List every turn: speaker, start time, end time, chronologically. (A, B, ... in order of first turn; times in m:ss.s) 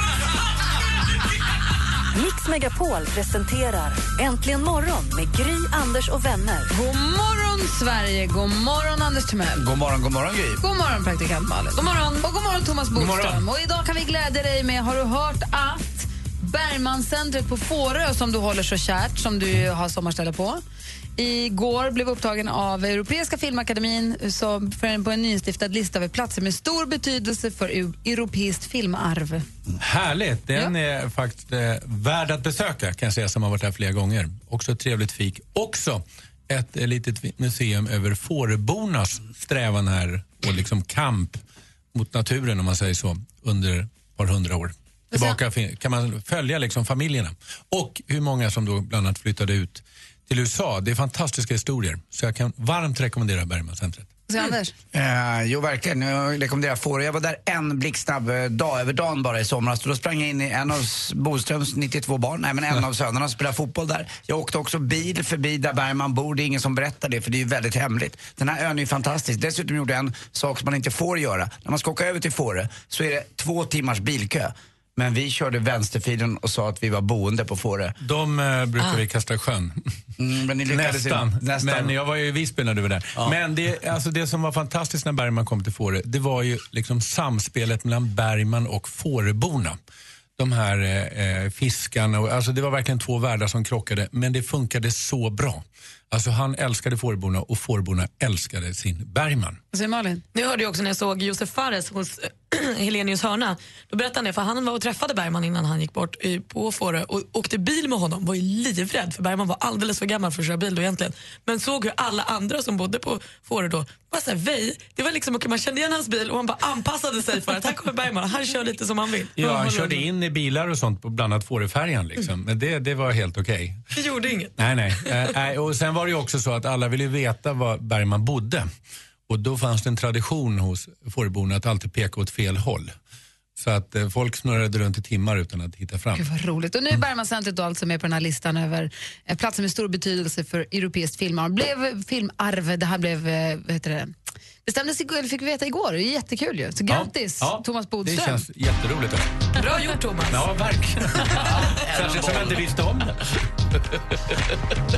0:02.1-0:06.7 A
0:06.7-0:09.6 B
0:09.6-0:10.6 C
0:10.6-0:20.6 B
0:11.8-0:12.2 D
0:12.9-0:13.4 E
0:21.2-0:29.4 B
0:29.8-0:41.4 E
0:41.9-0:54.1 E
0:45.1-0:45.4 B
0:54.3-0:54.7 B
0:54.9-1:18.0 C
1:18.0-1:19.8 E
1:20.2-1:21.9 C
1:20.7-1:29.8 E
1:30.4-1:39.6 E
1:39.7-1:40.2 B
1:40.3-1:59.4 D
1:59.4-2:03.8 E
1:59.4-2:00.0 B
2:03.9-2:05.3 D
2:04.6-2:08.7 E
2:09.3-2:12.9 E
2:13.6-2:16.3 E
2:16.1-2:24.1 B
2:24.6-2:28.4 B
2:26.9-2:29.3 E
2:29.6-2:30.5 D
2:30.3-2:34.5 E
2:31.6-2:32.6 C